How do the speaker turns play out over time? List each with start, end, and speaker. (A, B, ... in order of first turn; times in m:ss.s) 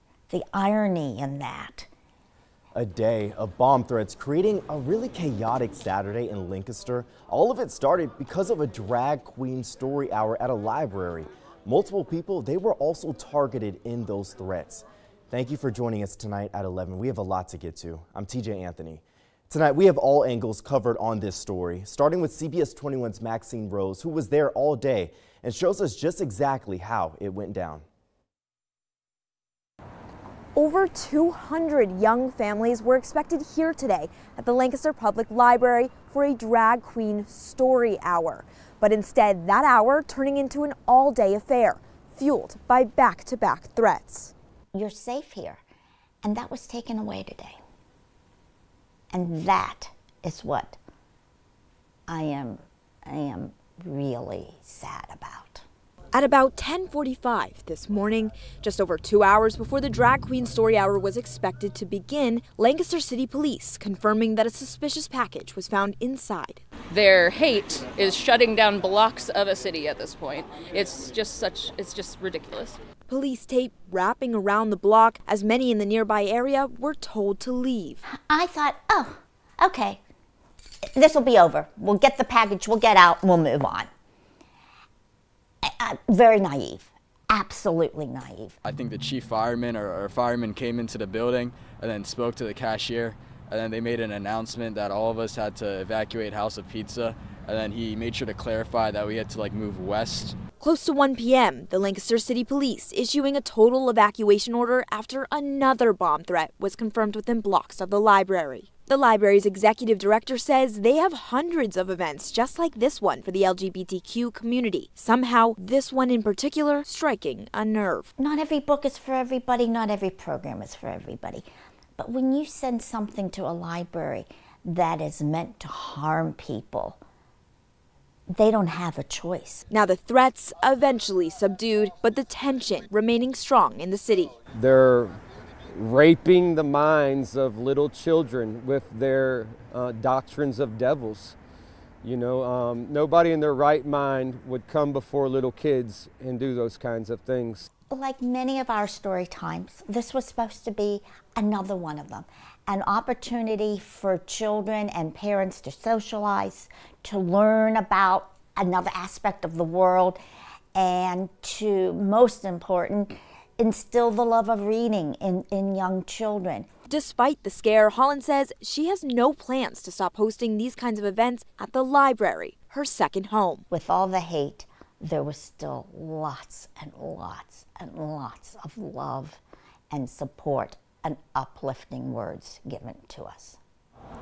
0:00.3-0:01.9 A
0:02.7-0:27.8 B
0:30.5-0:44.3 C
0:44.7-0:45.6 A
0:46.2-0:47.6 A
0:49.1-0:50.8 A
0:52.1-0:55.6 A
0:56.1-1:06.6 C
1:06.9-1:12.8 D
1:13.1-1:18.0 C
1:18.2-1:20.0 A
1:21.0-1:23.9 A
1:25.6-1:28.6 A
1:28.6-1:40.4 E
1:40.6-1:58.1 C
1:58.2-2:01.4 A
2:02.0-2:07.0 A
2:08.3-2:09.6 A
2:09.7-2:14.3 C
2:14.5-2:15.2 F
2:15.7-2:21.4 F
2:22.0-2:27.6 F
2:27.9-2:40.2 A
2:40.7-2:46.7 A
2:46.9-2:53.6 C
2:53.7-3:03.6 A